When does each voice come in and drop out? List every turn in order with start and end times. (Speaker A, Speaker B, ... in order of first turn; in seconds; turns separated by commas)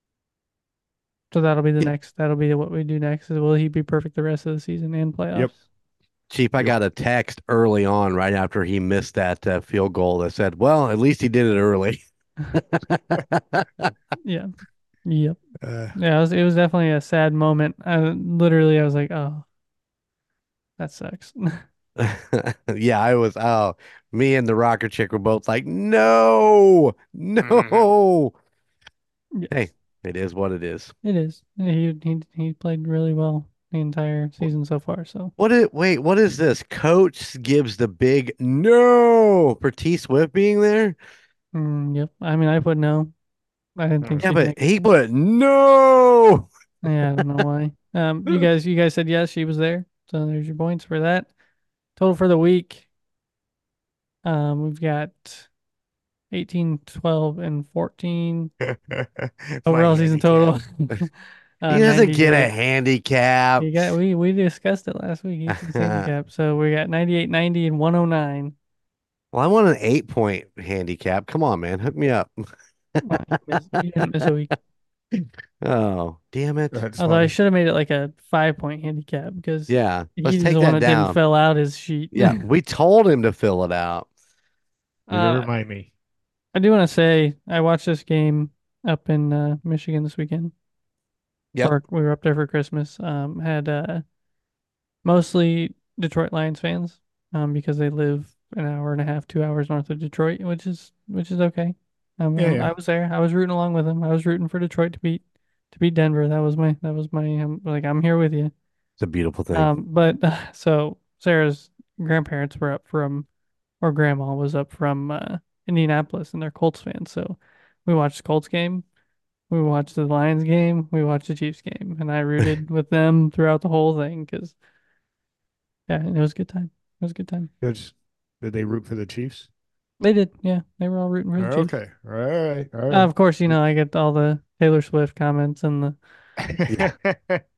Speaker A: 1.3-5.6, Speaker B: 6.3-12.0, Speaker B: 12.5-13.9, Speaker A: 14.2-14.5, Speaker A: 15.1-15.4, Speaker C: 15.6-15.9, Speaker A: 15.9-19.4, Speaker A: 20.8-21.6, Speaker B: 22.0-28.4, Speaker C: 27.4-27.9, Speaker B: 29.5-30.9, Speaker A: 31.0-35.3, Speaker B: 35.4-41.0, Speaker A: 41.5-43.1, Speaker A: 43.8-44.6, Speaker C: 44.0-44.3, Speaker B: 44.2-46.5, Speaker A: 46.8-51.3, Speaker A: 52.0-52.9, Speaker A: 54.2-55.5, Speaker A: 56.3-58.5, Speaker C: 58.6-60.5, Speaker A: 59.6-62.5, Speaker B: 61.7-63.7, Speaker A: 63.6-68.5, Speaker B: 65.5-66.1, Speaker B: 69.3-73.0, Speaker A: 73.0-74.6, Speaker B: 75.6-76.8, Speaker C: 76.7-77.3, Speaker A: 77.0-82.4, Speaker B: 79.7-81.2, Speaker B: 82.1-84.1, Speaker A: 85.1-85.5, Speaker C: 85.1-85.9, Speaker A: 86.5-90.5, Speaker A: 91.6-94.0, Speaker A: 95.0-108.5, Speaker C: 102.4-102.7, Speaker B: 109.0-109.7, Speaker A: 109.5-113.3, Speaker A: 113.8-118.9, Speaker A: 119.5-124.6, Speaker A: 125.9-127.5, Speaker C: 127.6-129.5, Speaker A: 130.0-131.7, Speaker C: 131.4-133.5, Speaker A: 132.9-136.0, Speaker C: 136.5-137.4, Speaker B: 136.7-136.9